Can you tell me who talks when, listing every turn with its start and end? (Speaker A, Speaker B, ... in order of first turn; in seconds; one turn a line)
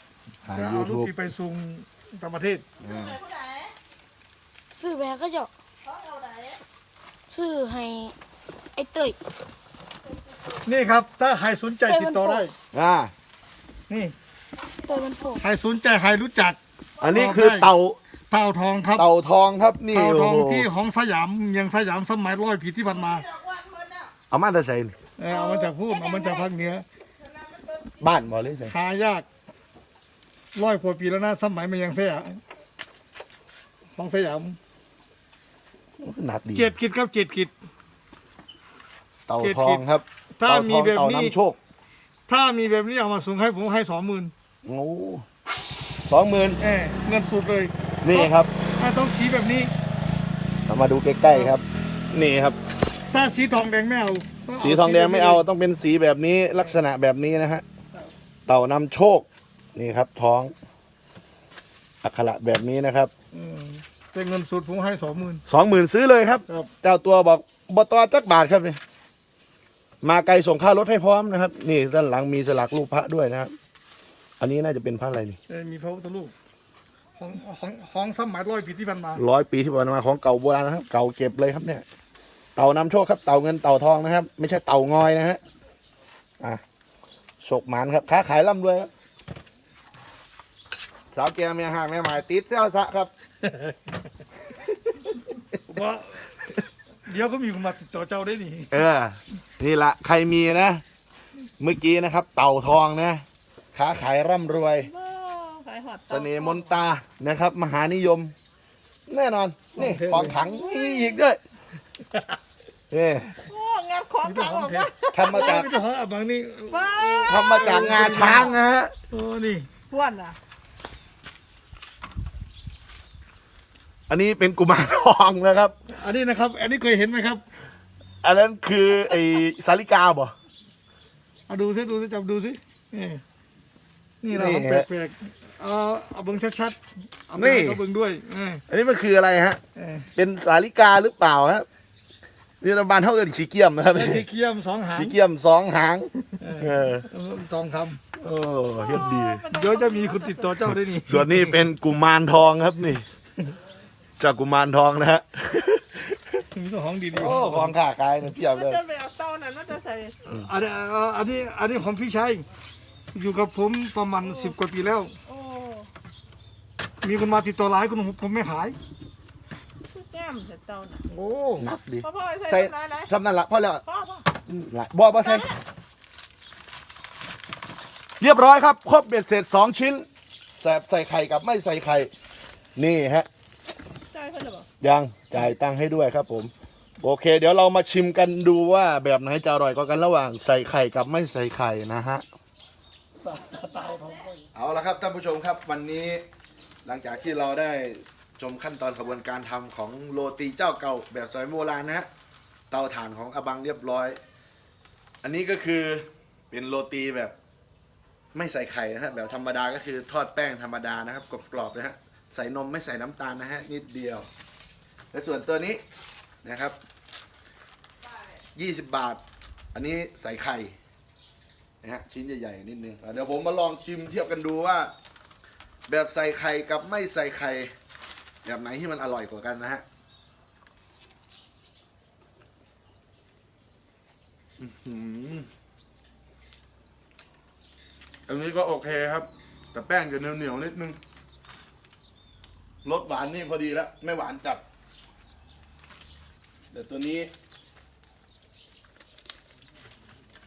Speaker A: 0.4-1.1
Speaker B: 0.5-2.6
Speaker A: 2.8-3.2
Speaker C: 2.8-3.7
Speaker D: 4.7-5.5
Speaker C: 5.8-6.6
Speaker D: 7.3-8.1
Speaker D: 8.7-9.2
Speaker B: 10.6-12.5
Speaker D: 11.9-12.4
Speaker A: 12.7-13.1
Speaker B: 13.9-14.1
Speaker D: 14.7-15.4
Speaker B: 15.4-17.7
Speaker A: 17.0-18.0
Speaker B: 18.3-19.1
Speaker A: 18.9-20.7
Speaker B: 19.9-23.3
Speaker C: 23.1-24.1
Speaker A: 24.3-24.9
Speaker B: 25.2-26.8
Speaker C: 25.3-26.4
Speaker C: 27.2-28.0
Speaker A: 28.0-28.7
Speaker B: 28.7-29.3
Speaker B: 30.5-32.4
Speaker B: 34.0-34.6
Speaker A: 36.0-36.7
Speaker B: 36.5-37.5
Speaker A: 39.3-41.6
Speaker B: 39.4-39.8
Speaker B: 40.4-41.4
Speaker B: 42.3-44.3
Speaker A: 44.6-45.2
Speaker A: 46.0-46.6
Speaker B: 46.6-49.7
Speaker A: 48.0-48.5
Speaker A: 50.7-52.6
Speaker B: 53.1-55.4
Speaker A: 54.6-57.6
Speaker A: 58.5-60.5
Speaker A: 62.0-63.1
Speaker B: 63.3-65.4
Speaker A: 65.5-68.8
Speaker A: 70.0-73.5
Speaker A: 74.4-75.4
Speaker B: 75.5-76.3
Speaker B: 77.2-79.2
Speaker A: 79.2-81.8
Speaker A: 82.5-85.4
Speaker A: 87.4-88.9
Speaker A: 91.1-93.1
Speaker B: 95.6-98.7
Speaker A: 98.7-100.8
Speaker A: 101.6-103.2
Speaker A: 103.7-104.9
Speaker C: 104.9-106.8
Speaker A: 106.1-108.3
Speaker A: 109.1-111.4
Speaker B: 109.7-110.4
Speaker C: 110.3-111.2
Speaker A: 112.9-113.3
Speaker C: 113.4-115.7
Speaker B: 114.2-118.5
Speaker A: 115.1-115.7
Speaker C: 116.7-117.8
Speaker A: 117.3-118.9
Speaker B: 119.1-119.7
Speaker C: 119.9-120.4
Speaker A: 124.1-125.7
Speaker B: 125.9-127.4
Speaker A: 128.2-130.3
Speaker B: 131.5-133.2
Speaker B: 134.2-138.6
Speaker A: 134.3-134.9
Speaker A: 137.3-137.8
Speaker A: 138.7-139.6
Speaker B: 139.8-140.1
Speaker A: 140.2-141.7
Speaker A: 142.6-144.2
Speaker B: 143.9-145.2
Speaker A: 144.9-147.1
Speaker B: 146.4-148.0
Speaker A: 148.2-149.4
Speaker C: 148.8-150.6
Speaker B: 149.5-151.6
Speaker A: 151.0-153.0
Speaker A: 154.2-156.4
Speaker B: 156.5-157.7
Speaker A: 157.1-158.8
Speaker C: 158.4-160.2
Speaker B: 160.3-162.4
Speaker B: 163.1-165.2
Speaker C: 164.2-164.5
Speaker C: 165.2-165.9
Speaker B: 167.0-168.8
Speaker C: 169.9-171.0
Speaker B: 171.1-171.7
Speaker A: 171.6-173.8
Speaker C: 172.0-173.1
Speaker C: 173.8-174.2
Speaker A: 174.4-175.5
Speaker C: 175.2-175.6
Speaker A: 178.2-180.1
Speaker A: 180.6-182.1
Speaker A: 182.8-183.3
Speaker C: 184.1-184.7
Speaker A: 184.8-192.2
Speaker B: 193.2-194.4
Speaker A: 194.5-196.2
Speaker A: 196.8-202.1
Speaker A: 202.7-204.2
Speaker A: 205.2-207.3
Speaker A: 208.3-214.3
Speaker A: 215.1-215.8
Speaker A: 216.4-216.8
Speaker A: 218.5-219.2
Speaker A: 219.7-220.8
Speaker A: 221.8-224.9
Speaker A: 225.9-227.7
Speaker A: 228.4-229.8
Speaker A: 234.6-235.5
Speaker A: 238.3-241.0
Speaker A: 242.8-244.6
Speaker A: 246.7-247.3